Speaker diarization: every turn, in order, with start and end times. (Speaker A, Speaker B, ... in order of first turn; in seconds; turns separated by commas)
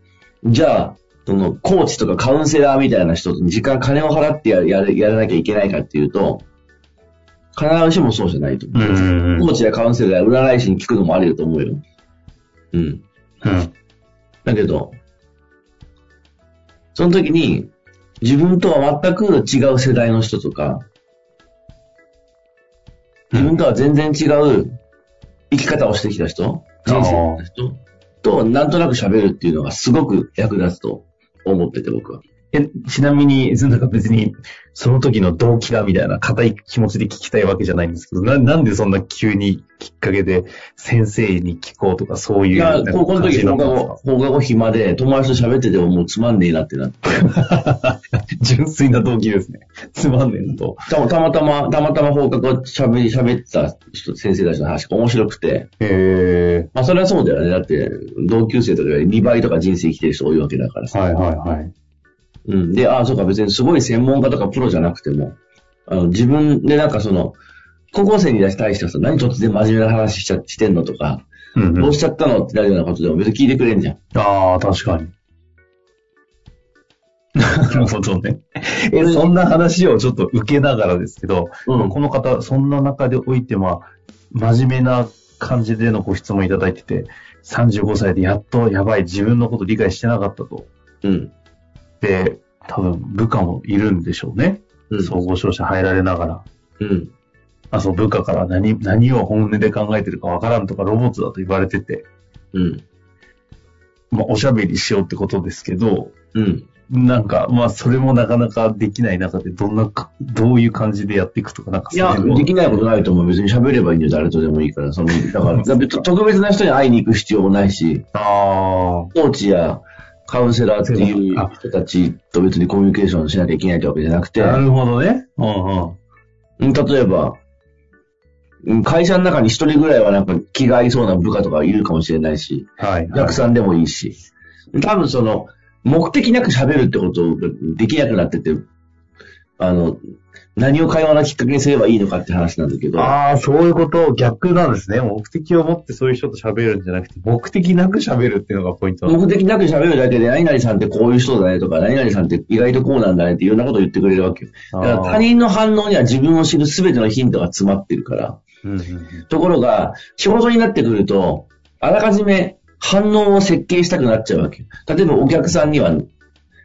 Speaker A: 0.4-6.4, Speaker A: 7.5-11.8, Speaker B: 8.7-9.5, Speaker A: 12.7-13.0, Speaker B: 13.4-13.7, Speaker A: 14.4-15.0, Speaker A: 16.9-20.8, Speaker A: 23.3-24.7, Speaker A: 25.5-32.2, Speaker B: 26.8-27.4, Speaker B: 32.5-44.0, Speaker A: 42.5-47.1, Speaker B: 47.2-50.9, Speaker A: 50.9-55.7, Speaker B: 55.8-56.7, Speaker A: 56.7-61.0, Speaker B: 60.9-61.7, Speaker A: 62.5-67.4, Speaker A: 67.9-74.0, Speaker B: 71.5-72.0, Speaker B: 74.1-75.1, Speaker B: 77.3-90.7, Speaker A: 79.0-79.3, Speaker A: 81.7-82.0, Speaker A: 91.0-91.3, Speaker B: 92.0-96.4, Speaker A: 94.9-95.2, Speaker A: 96.8-97.1, Speaker B: 97.7-102.0, Speaker A: 102.5-102.8, Speaker B: 104.1-106.1, Speaker A: 106.3-106.7, Speaker B: 106.9-112.7, Speaker A: 111.9-118.0, Speaker B: 115.4-116.0, Speaker B: 118.1-119.1, Speaker A: 119.1-124.6, Speaker B: 120.9-121.5, Speaker B: 124.4-126.0, Speaker A: 126.6-127.4, Speaker A: 128.6-134.2, Speaker B: 132.8-133.4, Speaker A: 134.7-138.7, Speaker A: 139.6-140.0, Speaker A: 140.5-143.2, Speaker B: 142.9-149.2, Speaker A: 149.1-158.4, Speaker B: 154.7-155.3, Speaker B: 158.6-159.2, Speaker A: 159.3-166.1